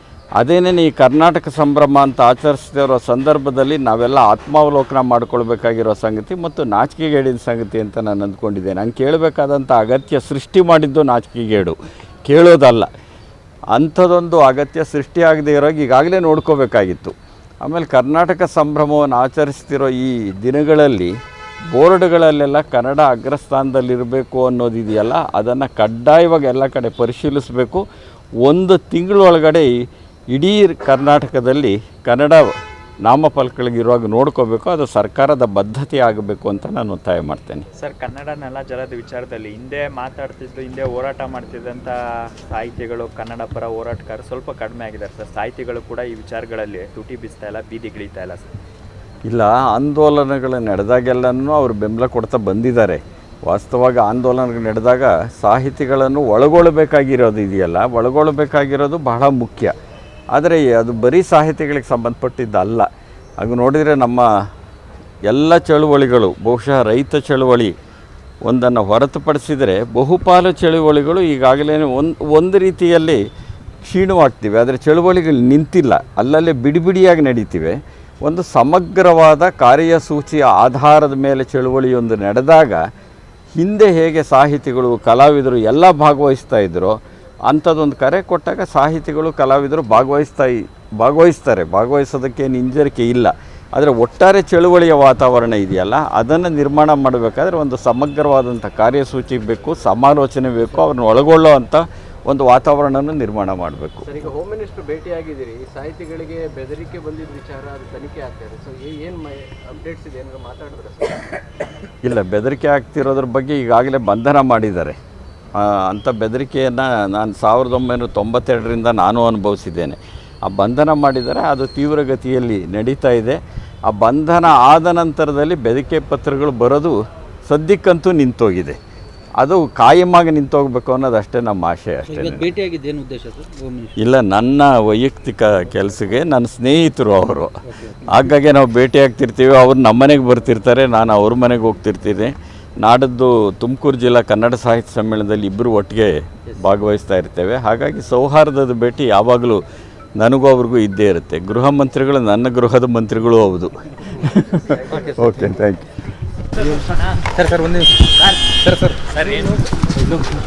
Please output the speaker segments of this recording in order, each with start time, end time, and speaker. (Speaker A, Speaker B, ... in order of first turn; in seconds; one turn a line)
Speaker A: 0.4-12.9
Speaker A: 13.7-21.1
Speaker A: 21.7-27.8
Speaker A: 28.4-29.7
Speaker A: 30.3-32.5
Speaker A: 33.0-37.7
Speaker B: 37.8-48.5
Speaker A: 49.3-59.7
Speaker A: 60.3-62.9
Speaker A: 63.4-64.3
Speaker A: 65.3-67.7
Speaker A: 68.4-73.2
Speaker A: 73.8-82.8
Speaker A: 83.5-87.0
Speaker A: 87.5-104.1
Speaker C: 104.1-111.4
Speaker A: 112.0-115.0
Speaker A: 115.6-128.8
Speaker A: 129.4-132.5
Speaker D: 132.1-133.9
Speaker A: 134.0-149.6
Speaker D: 137.7-138.1
Speaker A: 150.2-155.9
Speaker D: 154.9-155.5
Speaker D: 157.3-158.0
Speaker D: 158.5-159.0
Speaker B: 159.1-159.6